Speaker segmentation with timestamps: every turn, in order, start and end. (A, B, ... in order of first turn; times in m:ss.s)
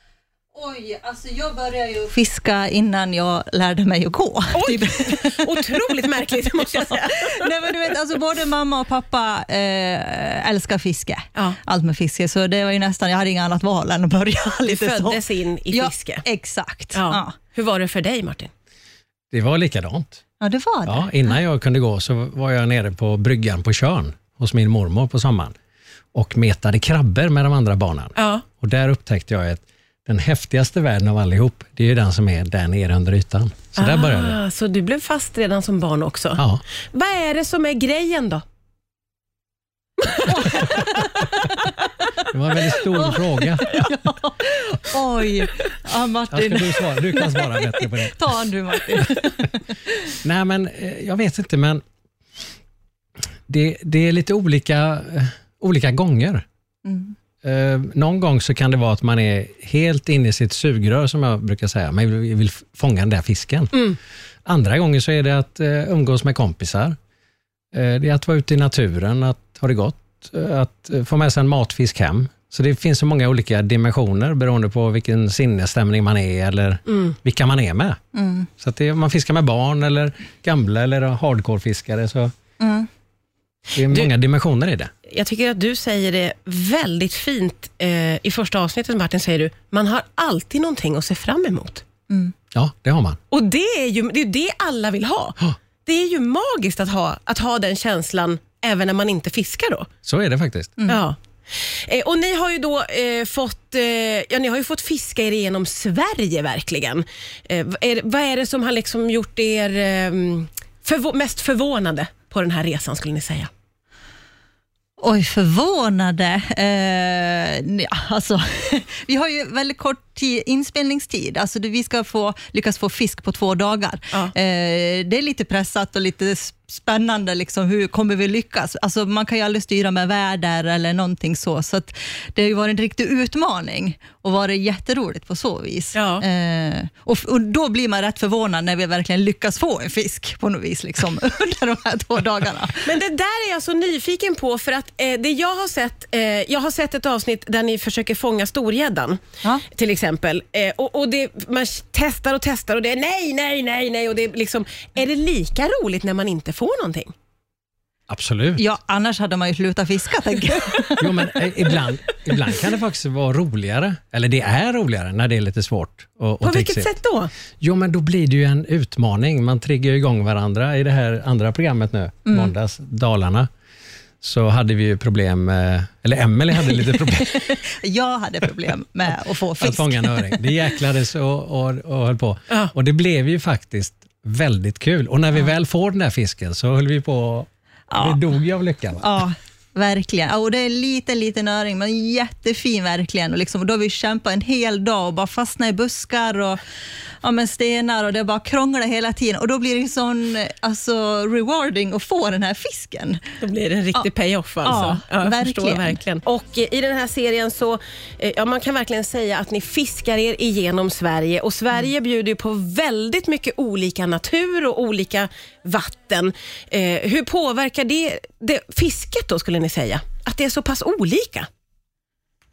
0:00.5-0:17.3 A
0:04.5-0:07.5 B
0:14.6-0:16.2 B
0:16.9-0:18.5 B
0:19.3-0:20.2 C
0:20.4-0:21.1 A
0:20.8-0:25.5 C
0:26.1-0:34.4 C
0:28.2-0:28.4 B
0:33.8-0:38.4 B
0:36.4-0:36.6 C
0:40.1-0:40.5 B
0:40.1-0:41.3 A
0:42.3-0:43.8 C
0:42.9-0:49.7 A
0:46.3-0:48.4 C
0:50.2-0:51.8 C
0:53.5-0:56.4 C
0:56.8-0:57.1 A
0:57.4-1:03.9 C
1:04.4-1:07.0 C
1:07.7-1:18.0 C
1:18.1-1:18.5 A
1:18.6-1:22.3 C
1:22.6-1:22.9 A
1:23.7-1:24.9 C
1:25.0-1:31.8 B
1:32.5-1:33.2 C
1:33.3-1:39.9 B
1:40.0-1:40.8 C
1:40.9-1:53.5 B
1:55.0-2:22.9 A
2:15.9-2:16.2 B
2:22.8-2:37.1 B
2:38.1-2:38.6 C
2:38.6-2:41.2 A
2:41.0-2:46.9 C
2:46.4-2:47.3 B
2:47.6-2:53.5 C
2:52.3-2:52.5 A
2:54.2-2:57.6 C
2:57.6-3:00.4 A
2:59.6-3:09.2 C
3:07.9-3:08.2 A
3:09.0-3:16.6 A
3:17.2-3:23.2 A
3:23.4-3:41.5 B
3:24.6-3:26.0 A